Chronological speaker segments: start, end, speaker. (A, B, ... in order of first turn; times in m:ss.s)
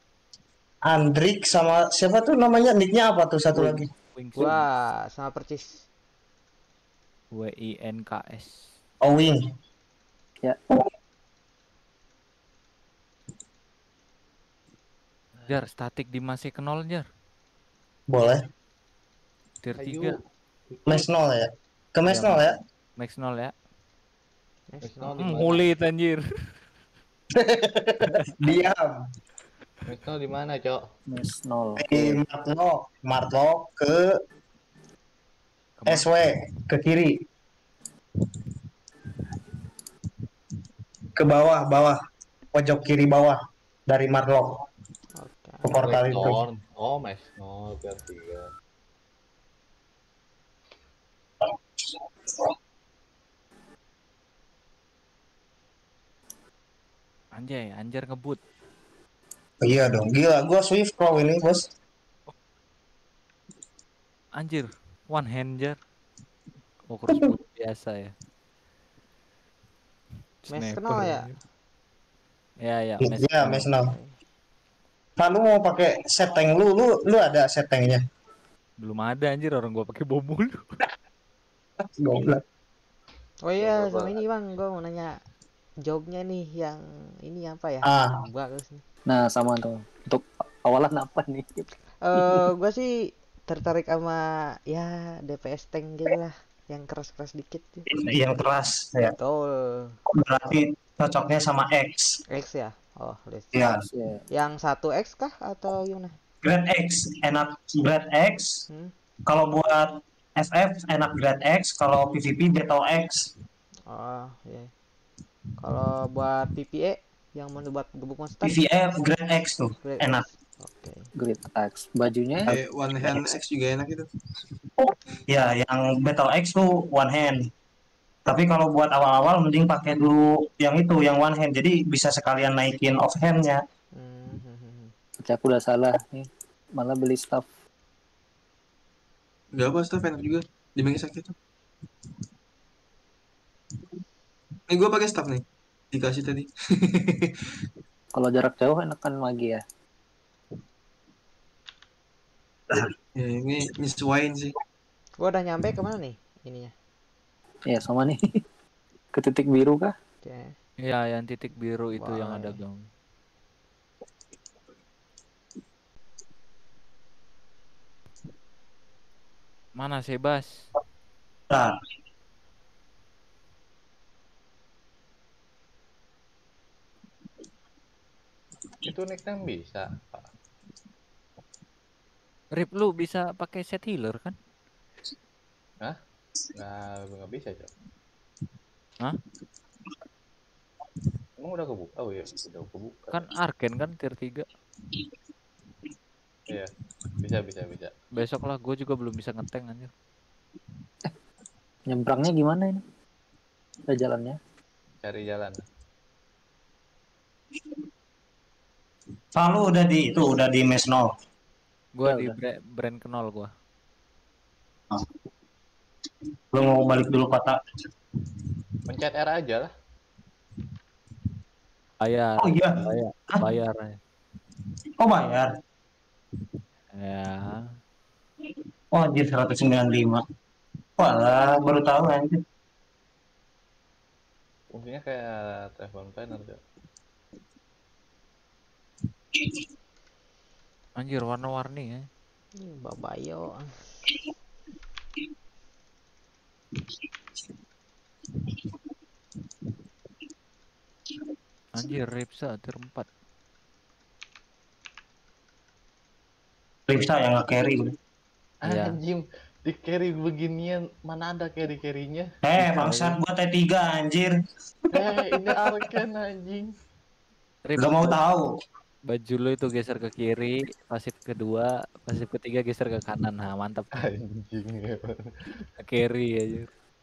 0:00.9-0:03.9 A
0:04.2-0:04.6 B
0:04.4-0:05.8 C
0:07.3-0:08.6 B
0:09.0-0:09.4 A
0:15.5-0:17.0 B
0:18.1-0:18.4 A
0:19.6-0:20.2 B
0:19.8-0:20.1 D
0:20.9-0:22.6 A
0:22.1-0:22.5 B
0:23.0-0:23.5 B
0:24.7-0:25.4 C
0:24.8-0:25.7 D
0:25.2-0:26.6 B
0:27.4-0:28.9 A
0:29.9-0:30.8 D
0:31.1-0:32.2 E
0:31.8-0:34.2 A
0:35.8-0:36.1 B
0:35.9-0:37.2 A
0:41.2-0:42.0 A
0:42.5-0:44.6 A
0:45.2-0:45.7 C
0:45.6-0:46.4 A
0:45.8-0:48.5 D
0:51.4-0:52.5 A
0:57.4-0:58.4 B
0:59.6-1:01.7 A
1:04.4-1:05.8 B
1:06.9-1:08.1 B
1:10.4-1:11.4 B
1:10.5-1:11.3 C
1:12.6-1:13.7 B
1:13.0-1:13.9 A
1:13.8-1:14.2 C
1:15.2-1:18.0 A
1:18.8-1:20.6 B
1:21.8-1:22.4 A
1:23.4-1:25.2 C
1:23.6-1:24.2 D
1:25.8-1:28.8 C
1:27.9-1:28.2 A
1:29.1-1:32.4 E
1:32.0-1:37.8 C
1:37.9-1:39.2 A
1:39.2-1:40.0 C
1:40.2-1:42.2 A
1:42.3-1:43.5 C
1:43.9-1:44.2 E
1:44.3-1:46.1 C
1:46.4-1:48.6 A
1:49.3-1:53.3 A
1:53.9-1:54.7 C
1:55.6-1:58.6 C
1:58.4-2:00.2 A
1:59.8-2:01.1 C
2:01.2-2:03.3 E
2:02.4-2:04.1 F
2:04.8-2:07.5 A
2:08.3-2:13.6 A
2:14.0-2:14.9 C
2:15.2-2:17.5 E
2:19.6-2:21.4 F
2:24.7-2:27.4 F
2:28.1-2:29.6 E
2:33.2-2:34.5 F
2:35.2-2:36.7 C
2:37.7-2:38.4 E
2:39.2-2:39.9 E
2:40.2-2:40.6 C
2:40.8-2:42.8 B
2:42.0-2:42.6 C
2:49.8-2:50.5 B
2:58.8-3:00.3 D
3:02.6-3:04.4 B
3:06.6-3:07.7 D
3:11.4-3:13.3 D
3:13.1-3:14.5 B
3:16.5-3:17.9 D
3:18.1-3:19.9 B
3:21.9-3:22.8 E
3:23.9-3:24.4 E
3:25.0-3:25.6 D
3:29.4-3:31.1 A
3:32.0-3:33.5 B
3:32.0-3:32.4 E
3:36.5-3:37.6 A
3:38.9-3:39.7 D
3:42.0-3:44.0 B
3:42.4-3:43.5 A
3:45.0-3:45.5 A
3:46.9-3:47.7 B
3:48.4-3:50.2 A
3:51.0-3:52.4 A
3:54.7-3:56.6 D
3:59.4-3:59.6 A
4:01.0-4:02.1 B
4:02.6-4:03.7 C
4:08.4-4:08.7 A
4:11.7-4:13.1 B
4:16.9-4:17.9 A
4:18.6-4:22.3 D
4:18.7-4:19.0 B
4:22.4-4:24.3 A
4:22.6-4:23.2 B
4:24.9-4:26.7 D
4:25.0-4:26.0 A
4:27.7-4:28.2 B
4:27.8-4:28.5 A
4:29.1-4:33.9 B
4:33.9-4:35.6 D
4:35.8-4:36.7 B